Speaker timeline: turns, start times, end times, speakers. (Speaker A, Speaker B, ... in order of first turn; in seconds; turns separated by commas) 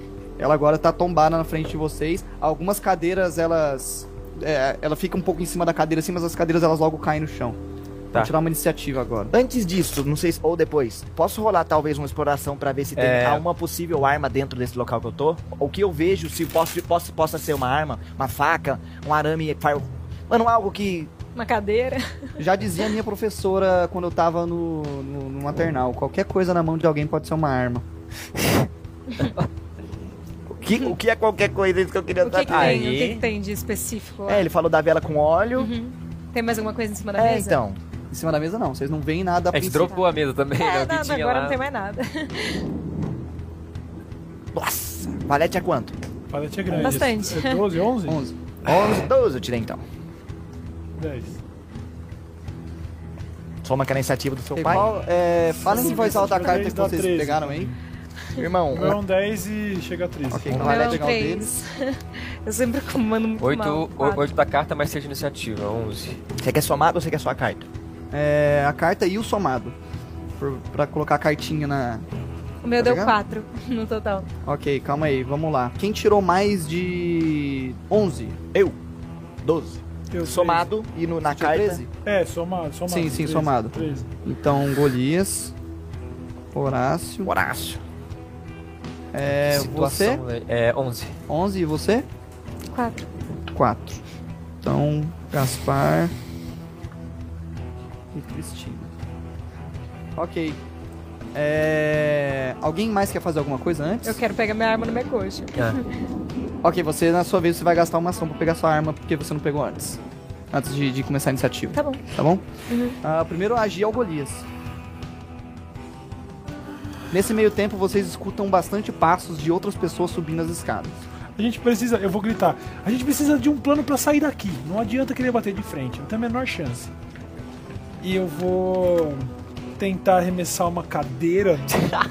Speaker A: 0.4-7.6, Speaker A: 8.1-9.3, Speaker B: 9.3-21.1, Speaker C: 12.9-13.4, Speaker D: 21.3-22.4, Speaker A: 22.4-27.8, Speaker B: 30.5-32.9, Speaker D: 32.2-34.5, Speaker C: 32.5-33.3, Speaker B: 34.3-35.7, Speaker D: 35.6-37.6, Speaker B: 37.1-37.8, Speaker A: 38.1-40.0, Speaker C: 39.5-41.6, Speaker D: 40.5-42.6, Speaker B: 44.5-45.9, Speaker E: 46.3-48.2, Speaker A: 46.7-47.0, Speaker D: 46.7-47.6, Speaker A: 48.0-48.4, Speaker B: 48.6-49.8, Speaker E: 51.0-51.4, Speaker B: 53.6-54.9, Speaker A: 54.5-57.7, Speaker E: 55.6-57.8, Speaker B: 58.3-59.0, Speaker E: 58.7-60.6, Speaker A: 60.3-61.5, Speaker B: 60.5-61.0, Speaker D: 60.5-64.2, Speaker C: 63.4-66.2, Speaker B: 66.4-67.7, Speaker A: 68.1-69.8, Speaker A: 70.4-72.0, Speaker D: 72.6-74.3, Speaker A: 72.8-73.2, Speaker A: 74.4-78.4, Speaker B: 79.4-81.8, Speaker E: 80.1-80.7, Speaker A: 81.3-81.9, Speaker E: 82.0-84.1, Speaker A: 82.9-85.5, Speaker A: 86.5-87.3, Speaker B: 87.2-87.8, Speaker A: 89.1-90.2, Speaker C: 89.5-91.2, Speaker A: 91.3-92.1, Speaker D: 92.7-93.1, Speaker A: 93.5-94.0, Speaker A: 94.6-96.1, Speaker A: 98.1-98.9, Speaker A: 100.2-100.6, Speaker A: 101.3-104.2, Speaker D: 104.0-105.9, Speaker A: 106.6-110.0, Speaker A: 110.5-112.5, Speaker D: 111.7-112.0, Speaker D: 112.7-113.0, Speaker A: 113.0-114.4, Speaker A: 117.1-121.0, Speaker E: 121.3-126.9, Speaker E: 128.0-132.0